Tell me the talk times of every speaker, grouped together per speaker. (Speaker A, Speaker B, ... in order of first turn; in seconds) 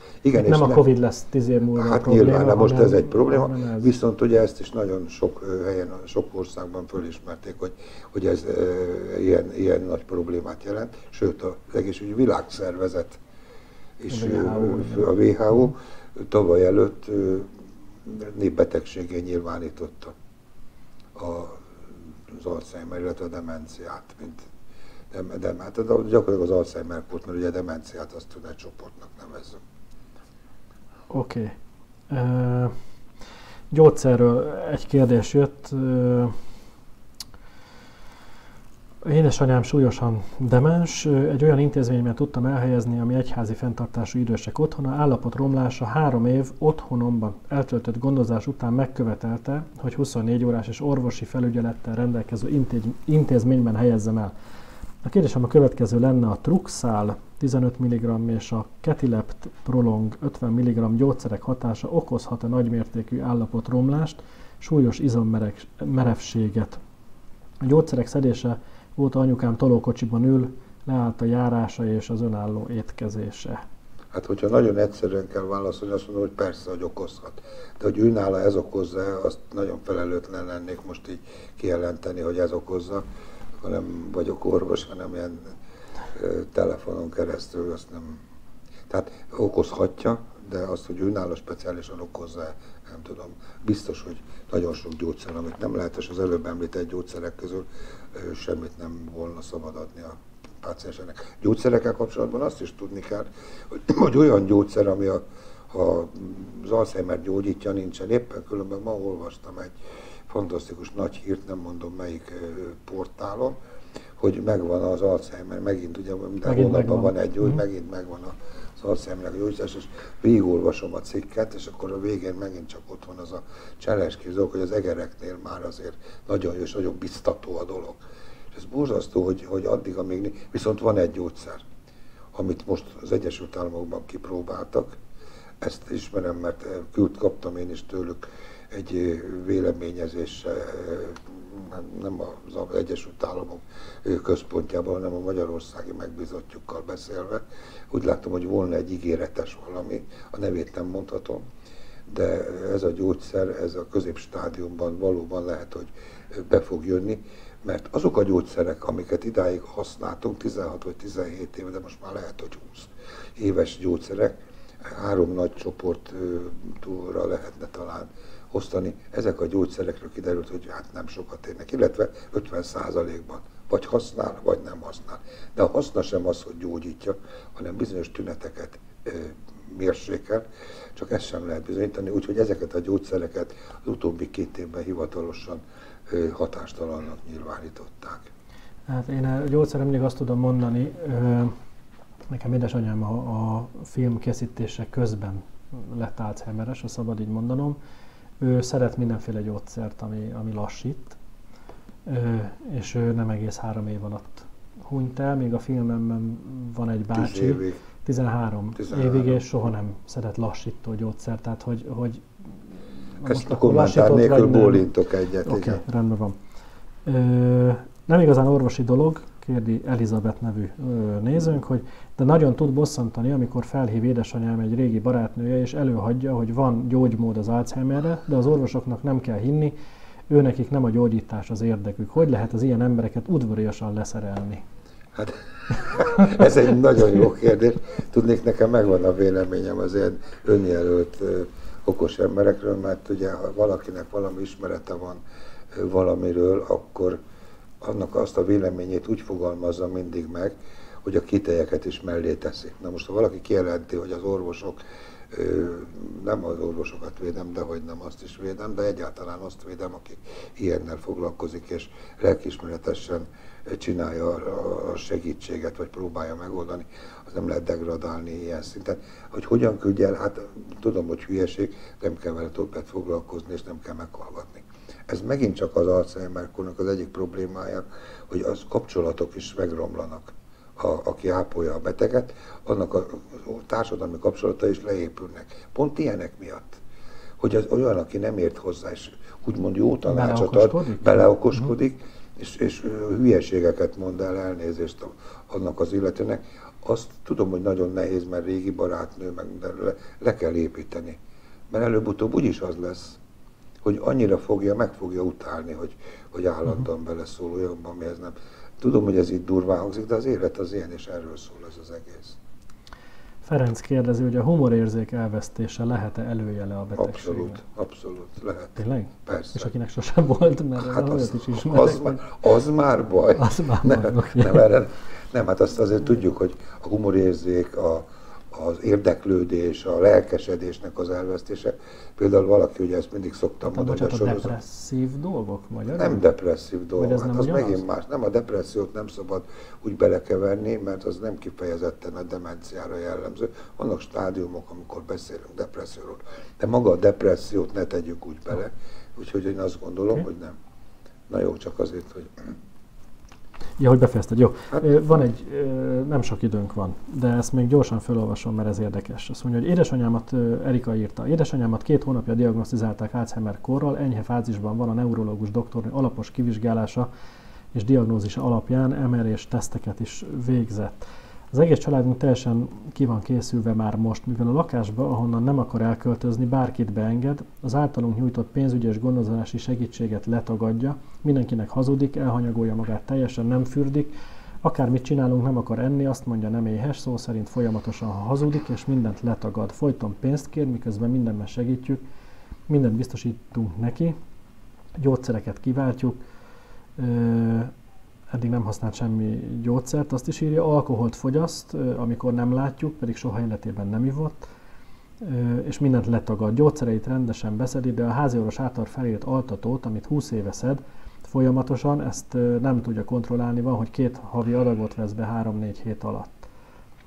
Speaker A: 0.2-0.9, 1.7-13.2, 14.0-20.2, 21.1-24.5, 25.1-29.6, 74.1-83.0, 83.6-85.4, 86.1-88.2, 88.9-109.7, 110.3-113.5, 114.2-128.0, 128.5-131.6, 132.3-135.0, 135.6-151.4, 152.1-188.3, 207.1-207.8, 208.8-209.4, 213.2-215.8, 235.1-245.2, 245.7-247.2, 247.8-254.8, 255.3-286.8, 287.4-301.2, 301.7-303.2, 303.8-312.4, 316.9-319.7, 320.8-334.6, 335.9-350.6, 351.3-352.6
Speaker B: 0.3-3.9, 14.1-15.1, 31.1-31.6, 32.1-32.7, 33.7-36.4, 39.0-54.3, 55.0-66.8, 67.6-73.6, 116.5-117.6, 188.9-191.5, 192.3-197.8, 198.4-201.2, 202.1-212.3, 213.2-214.9, 215.4-216.4, 217.1-229.7, 230.3-234.6, 235.9-236.4, 290.1-291.3, 313.4-317.6, 318.8-322.3, 323.4-324.7, 333.6-336.2, 337.0-337.8, 353.8-367.1, 367.7-392.0, 392.7-394.2, 395.0-396.2, 397.0-397.7, 398.3-404.4, 405.2-416.4